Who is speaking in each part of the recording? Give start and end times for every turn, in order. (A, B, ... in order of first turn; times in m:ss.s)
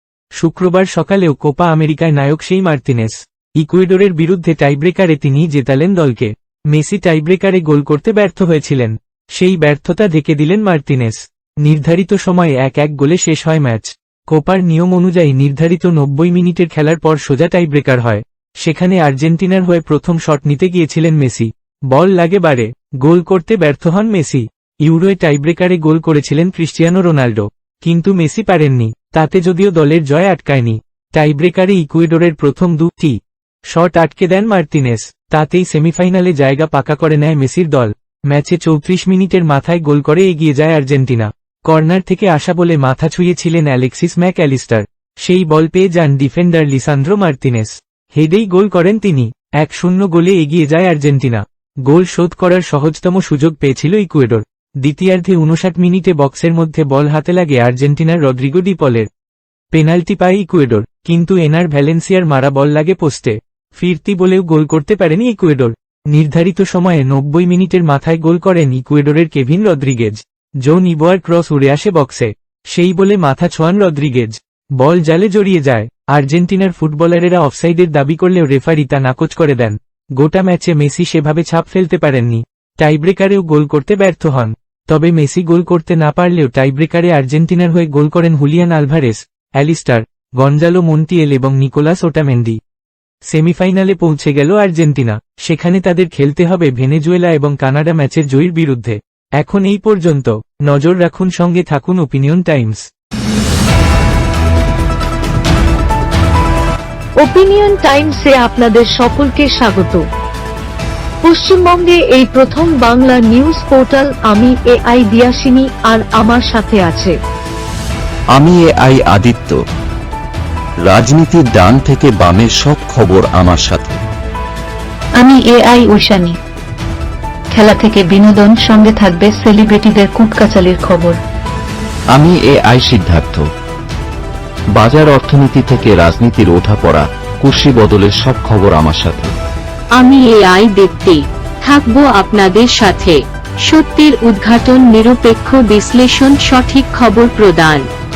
0:00.4-0:33.2 A
0:33.7-0:59.1 A
0:59.7-1:32.6 A
1:33.3-1:42.8 A
1:47.2-1:50.0 B
1:51.2-1:57.2 B
1:58.4-1:59.6 C
2:00.9-2:04.0 C
2:05.2-2:06.4 D
2:07.5-2:11.2 D
2:12.1-2:13.5 C
2:14.8-2:19.4 C
2:20.0-2:27.9 E